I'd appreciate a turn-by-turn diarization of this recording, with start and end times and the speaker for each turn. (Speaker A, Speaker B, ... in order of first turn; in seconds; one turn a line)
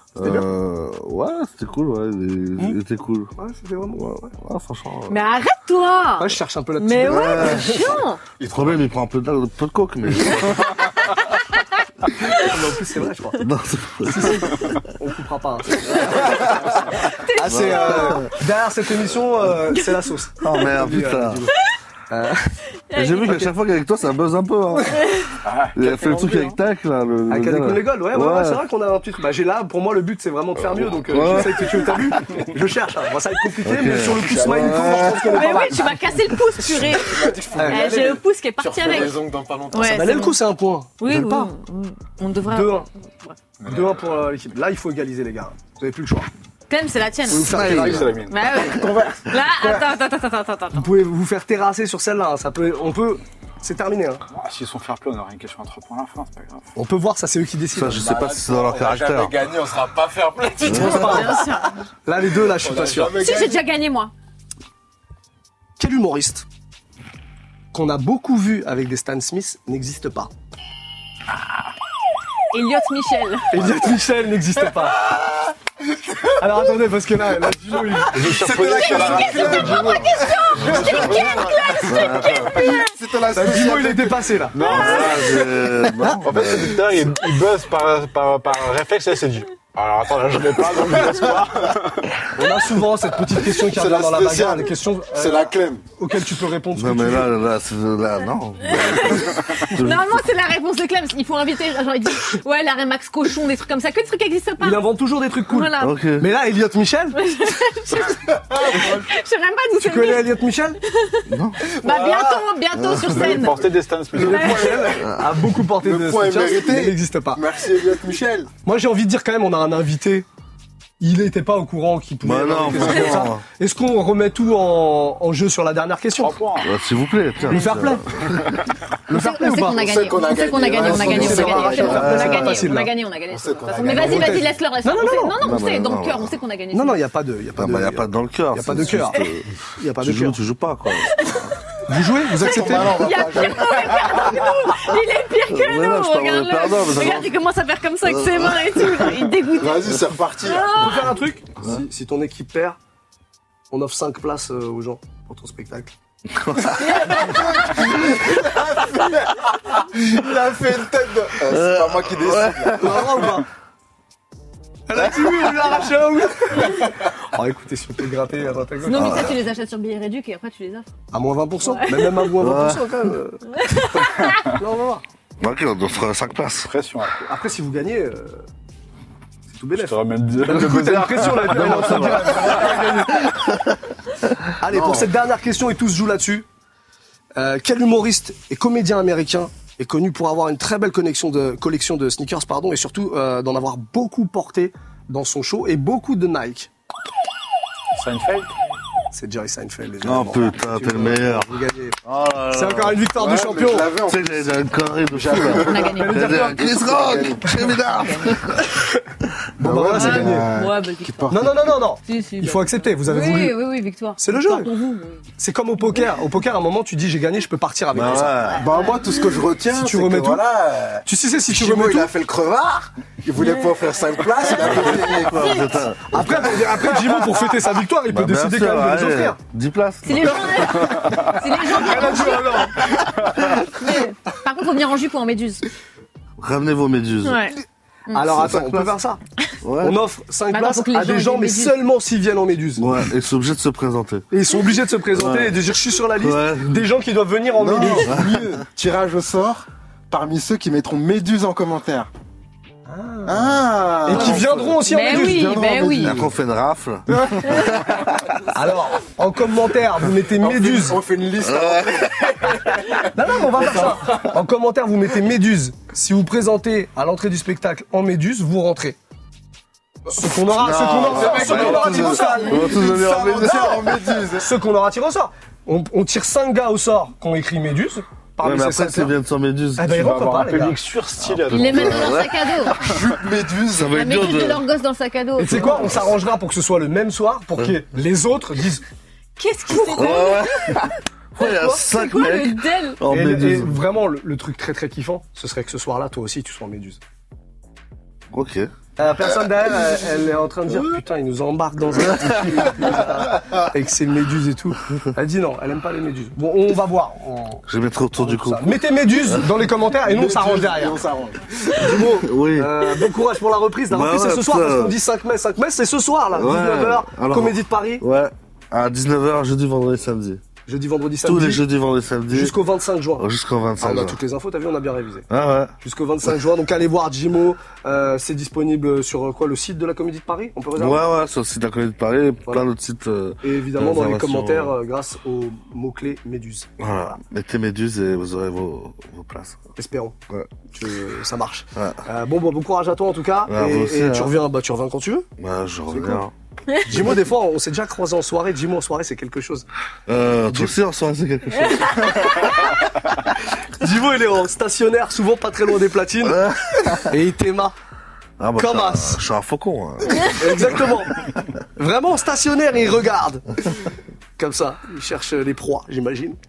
Speaker A: 0.1-3.3
Speaker B: 0.2-0.5
Speaker B: 3.3-4.3
Speaker A: 4.0-5.2
Speaker C: 5.1-8.2
Speaker B: 6.2-8.0
Speaker A: 7.0-7.8
Speaker A: 8.4-10.7
Speaker B: 12.2-13.5
Speaker A: 13.4-14.5
Speaker B: 14.0-22.6
Speaker C: 17.2-18.3
Speaker A: 17.4-18.3
Speaker A: 20.4-21.5
Speaker C: 22.9-23.4
Speaker A: 22.9-25.1
Speaker B: 23.2-23.5
Speaker C: 24.9-25.3
Speaker D: 25.4-26.2
Speaker A: 25.7-28.6
Speaker C: 26.1-26.5
Speaker B: 27.3-36.0
Speaker A: 30.9-31.8
Speaker A: 33.6-35.0
Speaker E: 34.1-35.9
Speaker C: 35.3-39.2
Speaker E: 36.5-40.2
Speaker B: 37.5-38.0
Speaker C: 39.7-40.4
Speaker B: 39.8-41.5
Speaker C: 41.0-43.4
Speaker B: 42.5-42.9
Speaker B: 43.6-46.3
Speaker D: 43.6-44.0
Speaker C: 46.7-47.7
Speaker B: 47.3-48.2
Speaker A: 47.5-48.1
Speaker D: 47.5-48.5
Speaker C: 48.3-50.9
Speaker E: 48.5-49.9
Speaker B: 50.7-54.2
Speaker D: 54.3-56.7
Speaker B: 56.8-58.5
Speaker A: 57.7-59.5
Speaker E: 58.5-60.7
Speaker D: 59.6-60.8
Speaker C: 60.6-61.8
Speaker B: 60.6-63.2
Speaker A: 60.6-61.3
Speaker E: 62.5-63.6
Speaker C: 63.1-64.1
Speaker B: 65.8-66.5
Speaker B: 67.7-70.3
Speaker C: 72.5-73.5
Speaker B: 73.5-75.1
Speaker B: 76.2-80.6
Speaker D: 78.0-82.8
Speaker C: 78.7-81.9
Speaker E: 80.4-81.7
Speaker A: 80.6-81.1
Speaker A: 81.8-82.7
Speaker E: 82.4-84.7
Speaker B: 83.3-84.6
Speaker D: 84.5-92.2
Speaker A: 84.6-86.8
Speaker B: 92.3-97.3
Speaker E: 93.6-95.8
Speaker A: 96.7-100.2
Speaker C: 98.6-106.0
Speaker B: 104.6-107.2
Speaker A: 105.8-106.3
Speaker C: 107.2-113.6
Speaker E: 108.5-109.0
Speaker B: 109.7-110.8
Speaker A: 111.2-111.7
Speaker E: 111.8-112.4
Speaker A: 112.8-113.3
Speaker D: 113.1-114.9
Speaker B: 114.1-117.4
Speaker C: 114.2-114.8
Speaker E: 114.3-115.0
Speaker A: 115.0-115.4
Speaker E: 115.7-118.5
Speaker B: 118.6-120.2
Speaker B: 121.0-126.4
Speaker A: 122.2-123.4
Speaker D: 126.2-126.7
Speaker A: 126.6-128.6
Speaker B: 127.5-128.3
Speaker B: 129.1-129.9
Speaker C: 129.1-137.0
Speaker E: 129.6-132.6
Speaker B: 130.7-133.0
Speaker A: 131.8-132.7
Speaker E: 133.3-134.6
Speaker B: 133.9-135.4
Speaker A: 135.4-136.4
Speaker B: 136.7-140.4
Speaker A: 137.6-141.3
Speaker C: 138.9-139.2
Speaker C: 141.0-141.5
Speaker B: 141.9-143.1
Speaker E: 142.2-144.4
Speaker C: 142.4-151.2
Speaker A: 145.5-147.3
Speaker A: 148.0-149.1
Speaker E: 149.4-151.1
Speaker B: 150.7-152.8
Speaker B: 153.7-155.9
Speaker A: 156.3-156.9
Speaker C: 156.8-157.8
Speaker B: 156.9-157.6
Speaker E: 157.1-163.2
Speaker A: 161.4-163.4
Speaker B: 162.7-163.5
Speaker B: 164.9-169.3
Speaker C: 168.8-170.9
Speaker A: 168.9-169.4
Speaker B: 171.1-175.0
Speaker C: 171.7-172.3
Speaker A: 172.4-173.1
Speaker C: 173.5-174.3
Speaker D: 174.1-174.5
Speaker A: 175.4-176.7
Speaker D: 176.6-177.3
Speaker B: 177.3-178.5
Speaker B: 179.5-183.4
Speaker D: 179.7-182.8
Speaker A: 181.5-183.8
Speaker B: 184.6-186.5
Speaker E: 184.7-185.1
Speaker B: 187.4-196.7
Speaker D: 197.9-198.5
Speaker B: 199.1-202.0
Speaker A: 200.0-203.0
Speaker B: 202.5-203.9
Speaker E: 203.1-207.8
Speaker A: 204.1-208.9
Speaker C: 205.4-206.5
Speaker B: 205.8-206.8
Speaker C: 207.7-208.4
Speaker B: 208.7-209.0
Speaker B: 209.6-210.5
Speaker E: 209.6-211.5
Speaker C: 209.9-211.4
Speaker B: 211.3-213.6
Speaker C: 212.0-215.2
Speaker B: 214.2-214.7
Speaker B: 215.4-218.5
Speaker A: 217.9-218.7
Speaker C: 218.4-219.4
Speaker E: 218.5-225.8
Speaker B: 219.7-220.4
Speaker B: 221.0-222.1
Speaker C: 224.4-225.7
Speaker A: 224.6-226.7
Speaker B: 226.1-229.4
Speaker A: 228.1-230.9
Speaker C: 230.0-232.9
Speaker D: 230.8-231.4
Speaker B: 231.6-232.9
Speaker D: 233.0-233.5
Speaker C: 233.6-235.7
Speaker A: 236.4-237.5
Speaker C: 237.2-237.6
Speaker C: 238.1-238.3
Speaker B: 238.1-239.2
Speaker A: 238.3-238.9
Speaker A: 239.6-240.0
Speaker B: 239.8-242.9
Speaker C: 240.5-241.8
Speaker A: 242.8-244.3
Speaker B: 244.3-248.4
Speaker A: 245.1-246.9
Speaker E: 247.5-252.1
Speaker A: 248.0-248.5
Speaker B: 252.9-255.8
Speaker E: 253.2-256.3
Speaker C: 254.9-256.2
Speaker A: 256.0-258.3
Speaker B: 257.1-257.7
Speaker B: 258.5-261.0
Speaker E: 260.4-264.0
Speaker A: 261.4-262.6
Speaker B: 262.9-269.0
Speaker B: 270.1-272.8
Speaker A: 270.4-274.0
Speaker D: 271.3-272.0
Speaker E: 271.3-274.6
Speaker B: 274.3-279.1
Speaker A: 278.4-280.1
Speaker B: 279.8-280.8
Speaker D: 279.9-282.2
Speaker C: 281.5-282.8
Speaker A: 281.5-282.7
Speaker E: 282.7-284.0
Speaker A: 283.7-284.6
Speaker C: 283.9-286.0
Speaker B: 285.4-288.8
Speaker C: 289.4-293.0
Speaker B: 289.7-290.2
Speaker A: 289.8-293.8
Speaker B: 293.1-297.0
Speaker A: 298.3-298.7
Speaker B: 299.0-307.6
Speaker A: 301.9-302.9
Speaker A: 307.7-309.5
Speaker B: 308.2-311.0
Speaker E: 310.0-312.1
Speaker B: 311.7-318.0
Speaker A: 311.9-313.1
Speaker A: 313.9-315.0
Speaker A: 316.3-320.4
Speaker B: 320.6-321.6
Speaker A: 321.2-322.6
Speaker B: 322.3-323.2
Speaker A: 323.2-324.2
Speaker B: 323.8-325.3
Speaker A: 325.3-325.7
Speaker B: 325.8-331.1
Speaker A: 330.8-334.7
Speaker B: 333.4-336.7
Speaker A: 336.8-339.6
Speaker B: 339.8-340.1
Speaker B: 340.7-345.3
Speaker A: 341.7-342.0
Speaker A: 343.4-344.4
Speaker A: 345.4-346.3
Speaker B: 345.9-346.2
Speaker B: 346.7-349.6
Speaker A: 350.1-352.3
Speaker B: 350.4-350.7
Speaker C: 351.7-352.4
Speaker B: 353.7-357.7
Speaker A: 356.2-357.1
Speaker A: 358.4-360.9
Speaker B: 358.6-359.2
Speaker B: 360.3-361.2
Speaker B: 361.8-366.4